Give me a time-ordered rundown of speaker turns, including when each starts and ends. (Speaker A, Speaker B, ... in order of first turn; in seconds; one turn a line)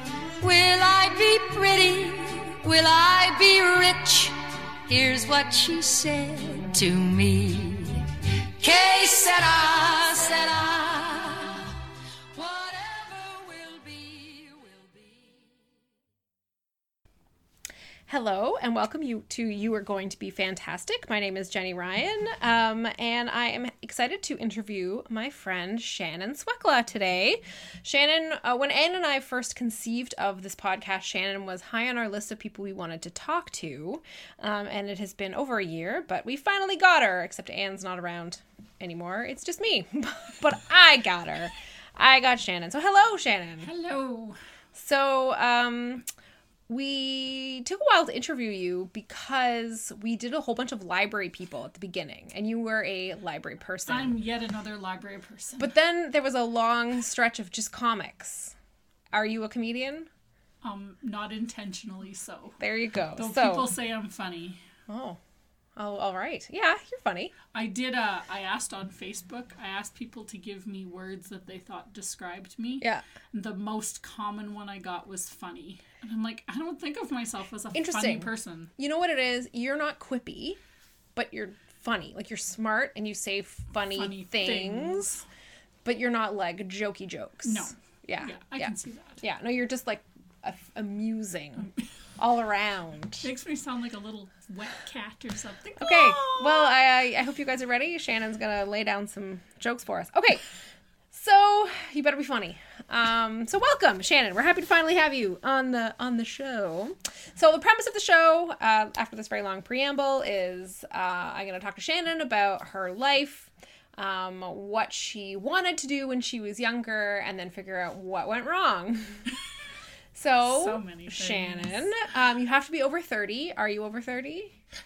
Speaker A: 0.4-8.1
Speaker A: 8.6-11.8
Speaker A: 12.3-15.5
Speaker B: 18.1-43.7
Speaker C: 43.6-44.4
Speaker B: 44.7-46.0
Speaker B: 46.7-54.1
Speaker C: 53.9-55.7
Speaker B: 55.6-58.5
Speaker B: 59.1-60.1
Speaker C: 60.6-62.6
Speaker B: 62.6-63.7
Speaker C: 63.1-64.6
Speaker B: 64.9-65.2
Speaker B: 65.8-67.3
Speaker C: 67.5-78.7
Speaker B: 77.7-80.6
Speaker B: 81.1-85.1
Speaker C: 83.9-85.2
Speaker B: 85.8-93.3
Speaker C: 87.4-89.2
Speaker C: 93.2-96.7
Speaker B: 95.8-100.4
Speaker B: 101.1-119.2
Speaker B: 120.1-124.5
Speaker C: 120.4-121.9